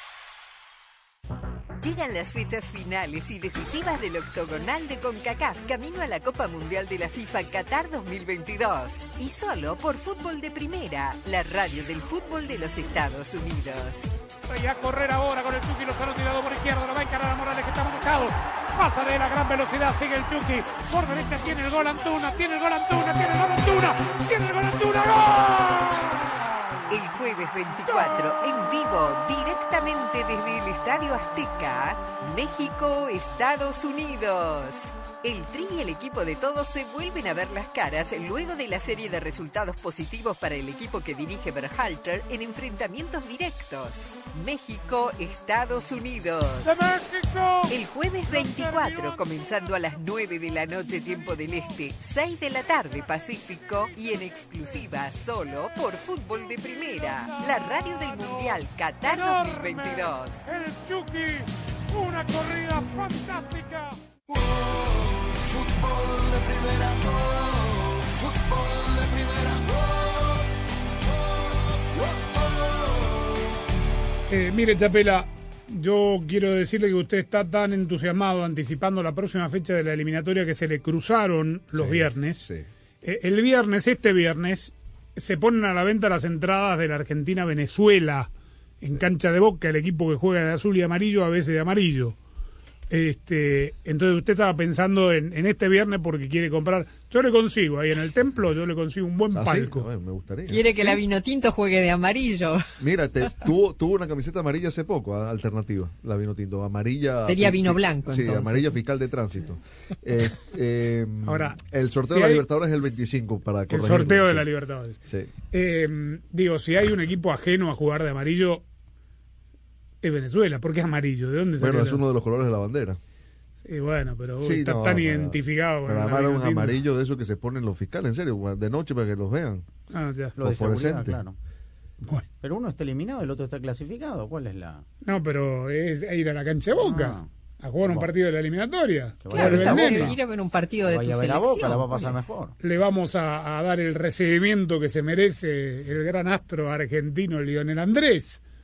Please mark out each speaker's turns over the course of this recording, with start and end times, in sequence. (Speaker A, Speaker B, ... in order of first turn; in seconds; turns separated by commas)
Speaker A: 1.8-14.1, Speaker B: 14.5-26.3, Speaker A: 26.9-46.9, Speaker B: 46.6-47.7, Speaker A: 47.7-60.5, Speaker B: 48.3-49.2, Speaker B: 57.3-64.0, Speaker C: 64.3-70.5, Speaker C: 71.0-73.6, Speaker B: 74.3-82.5, Speaker D: 81.7-82.7, Speaker B: 83.0-92.2, Speaker B: 92.9-99.9, Speaker D: 99.3-100.8, Speaker E: 100.5-102.7, Speaker D: 102.8-114.5, Speaker E: 107.2-108.8, Speaker B: 111.2-112.4, Speaker B: 113.7-115.0, Speaker D: 115.0-115.3, Speaker B: 115.5-118.6, Speaker B: 120.0-122.0, Speaker D: 121.6-123.0, Speaker B: 123.6-126.8, Speaker D: 124.4-129.6, Speaker B: 129.9-130.3, Speaker F: 130.4-131.3, Speaker D: 130.4-131.2, Speaker F: 132.4-134.8, Speaker B: 135.0-140.2, Speaker F: 136.7-137.3, Speaker F: 137.8-138.1, Speaker F: 139.2-140.2, Speaker E: 139.3-142.2, Speaker F: 140.8-142.5, Speaker B: 142.6-148.4